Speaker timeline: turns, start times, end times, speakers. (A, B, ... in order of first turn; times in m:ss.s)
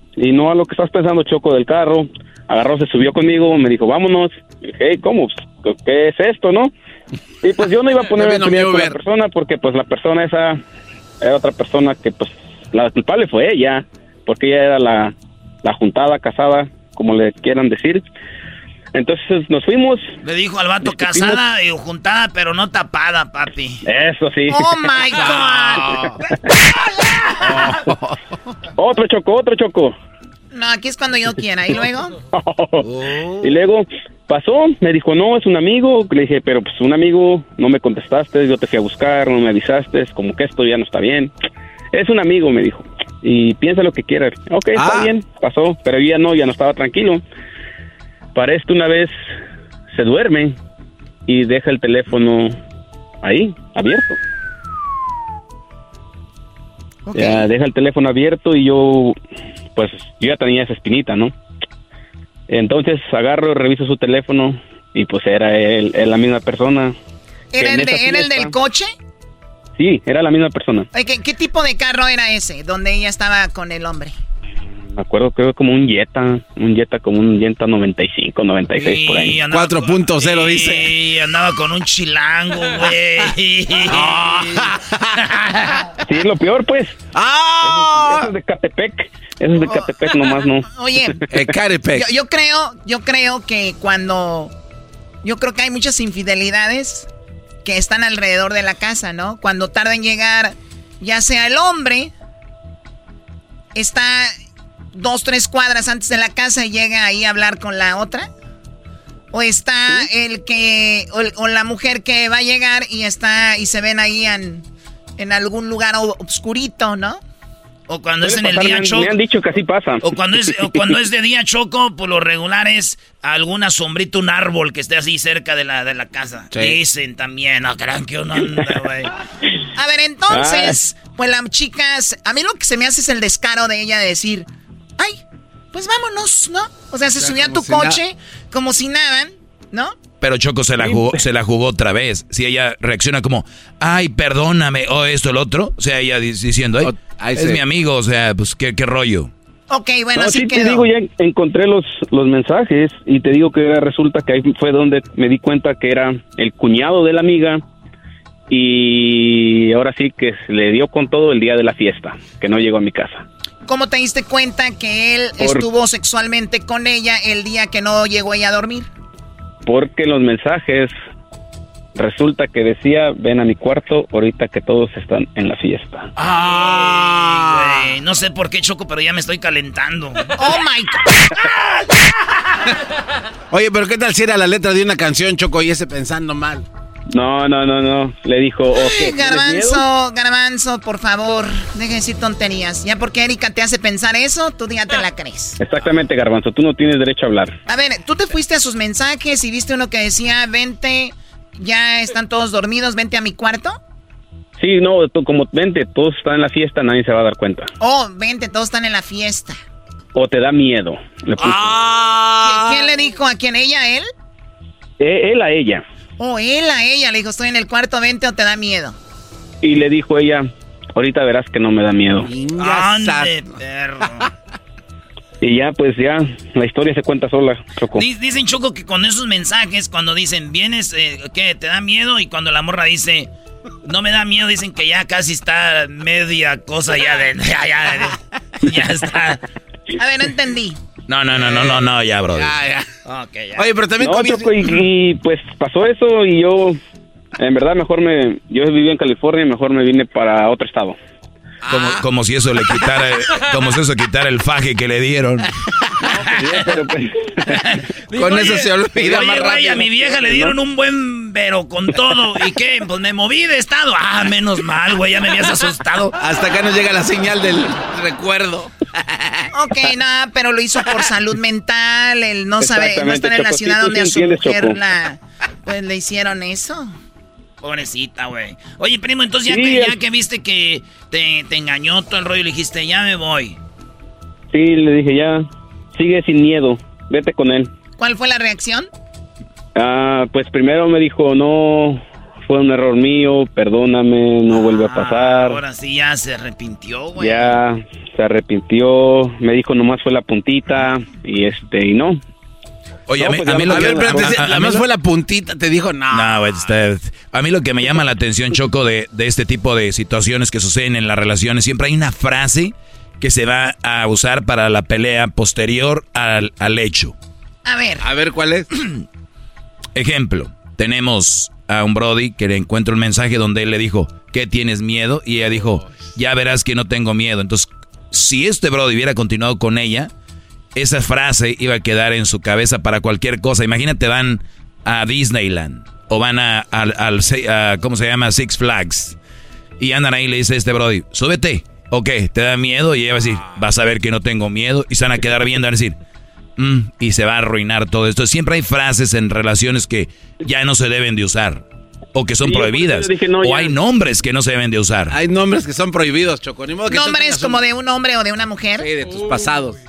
0:00.2-0:06.7 A
0:07.4-0:10.6 A
0:08.1-0:09.0 B
0:11.2-0:18.0 A
0:18.9-0:20.1 A
0:20.2-0:23.8 C
0:20.8-0:21.4 A
0:23.8-0:25.0 A
0:24.5-0:25.8 D
0:25.2-0:26.1 B
0:25.2-0:25.8 C
0:27.4-0:27.8 A
0:27.4-0:27.9 B
0:28.8-0:29.9 A
0:30.5-0:32.2 D
0:32.3-0:32.9 A
0:33.4-0:41.3 A
0:41.9-0:47.2 A
0:44.7-0:45.1 B
0:48.3-0:49.1 A
0:49.9-0:50.6 A
0:51.3-0:52.6 A
0:53.2-0:54.2 A
0:57.0-0:57.5 D
0:57.1-0:59.1 A
0:59.8-1:01.3 A
1:02.5-1:06.9 A
1:07.5-1:08.9 D
1:07.6-1:08.5 A
1:09.8-1:10.9 A
1:10.9-1:14.1 D
1:15.0-1:19.4 A
1:18.8-1:24.7 C
1:19.4-1:20.9 B
1:23.9-1:25.0 B
1:25.2-1:25.8 C
1:26.0-1:27.0 A
1:27.1-1:28.3 B
1:27.6-1:30.7 A
1:30.7-1:31.2 D
1:31.3-1:32.1 B
1:31.9-1:34.5 D
1:35.2-1:37.1 D
1:37.6-1:42.1 D
1:43.7-1:44.3 D
1:44.9-1:48.3 D
1:49.3-1:54.6 D
1:55.2-1:57.2 D
1:57.9-1:59.1 C
1:58.2-2:00.0 A
2:00.0-2:09.1 C
2:06.5-2:06.8 B
2:09.8-2:14.5 D
2:10.3-2:10.8 A
2:15.7-2:20.0 D
2:17.2-2:18.0 B
2:20.2-2:29.3 E
2:20.8-2:21.2 B
2:26.8-2:27.6 B
2:29.7-2:30.9 D
2:30.1-2:37.6 A
2:38.5-2:43.2 A
2:43.7-2:48.9 D
2:45.4-2:45.6 A
2:49.6-2:50.9 A
2:52.0-2:56.1 A
2:56.2-2:58.0 B
2:56.4-3:00.3 C
3:00.4-3:01.4 D
3:03.5-3:06.6 B
3:07.1-3:09.8 A
3:08.7-3:15.6 D
3:15.6-3:17.6 A
3:17.7-3:23.8 D
3:24.6-3:27.7 A
3:27.8-3:29.5 D
3:30.1-3:31.8 A
3:31.4-3:32.9 B
3:32.4-3:34.1 D
3:35.0-3:35.8 A
3:36.2-3:39.0 D
3:39.6-3:42.3 A
3:42.2-3:43.4 B
3:42.6-3:44.3 C
3:45.4-3:48.0 A
3:47.9-3:53.3 C
3:53.8-3:59.4 C
3:59.9-4:00.8 D
4:01.1-4:02.6 E
4:01.3-4:02.8 B
4:03.0-4:03.7 C
4:03.6-4:04.7 B
4:04.0-4:06.8 A
4:07.4-4:11.0 A
4:11.6-4:12.0 B
4:11.7-4:15.5 E
4:12.7-4:13.0 B
4:16.0-4:16.7 B
4:16.4-4:17.1 A
4:17.5-4:26.2 C
4:18.1-4:20.6 B
4:26.2-4:29.5 B
4:29.5-4:36.9 D
4:32.6-4:34.8 A
4:37.6-4:43.6 C
4:39.5-4:40.0 A
4:44.5-4:47.7 A
4:48.0-4:48.9 D
4:49.8-4:55.6 A
4:54.5-4:57.5 C
4:57.2-5:02.2 A
5:03.1-5:04.8 E
5:03.1-5:06.6 B
5:03.2-5:04.4 A
5:06.1-5:17.2 E
5:17.6-5:18.0 D
5:18.0-5:18.7 B
5:19.9-5:30.1 E
5:30.7-5:39.2 E
5:39.8-5:46.0 E
5:43.2-5:43.6 B
5:46.6-5:55.1 E
5:52.4-5:53.7 A
5:55.1-5:57.6 B
5:56.9-5:58.9 D
5:58.8-5:59.8 B